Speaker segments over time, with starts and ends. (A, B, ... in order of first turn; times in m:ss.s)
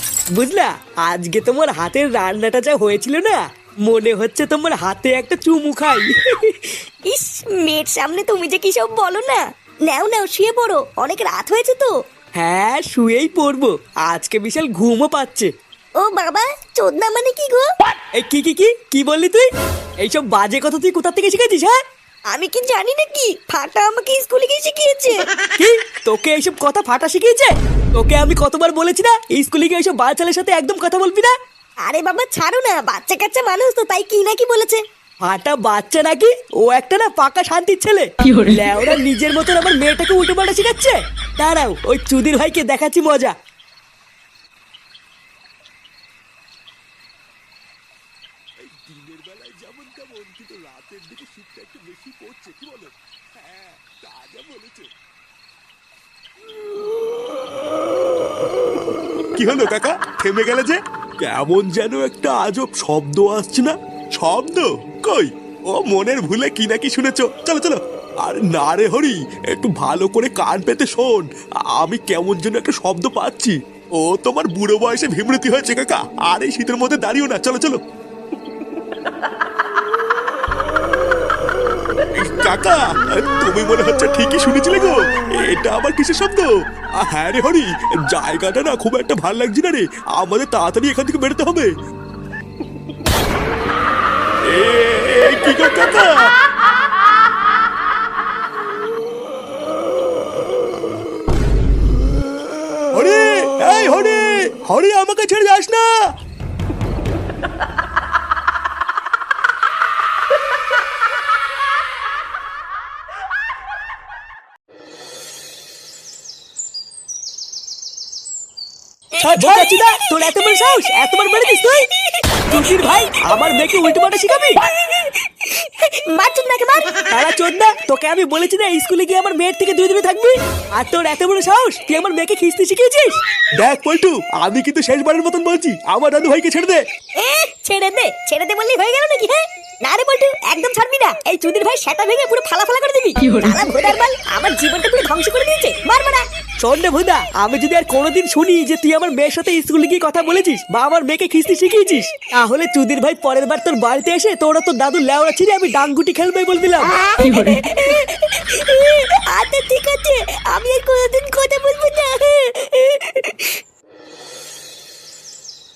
0:00.3-0:06.8 A
0:07.0-0:11.9 B
0:12.4-0:15.5 A
0:16.0-0:17.7 B
0:18.1-0:19.5 A
0:20.0-0:21.8 A
0:22.3-0:25.3 B
0:25.6-0:31.3 A
0:31.9-0:34.8 B
0:35.2-0:43.3 A
0:48.6-0:54.9 C
0:59.3-1:17.8 C
1:22.2-1:31.7 C
1:34.4-1:36.3 C
1:42.9-1:46.0 C
1:59.2-2:01.9 A
2:02.4-2:04.6 A
2:04.9-2:06.9 B
2:07.1-2:13.2 A
2:13.6-2:16.8 C
2:17.2-2:26.3 B
2:26.6-2:37.2 A
2:37.3-2:43.6 B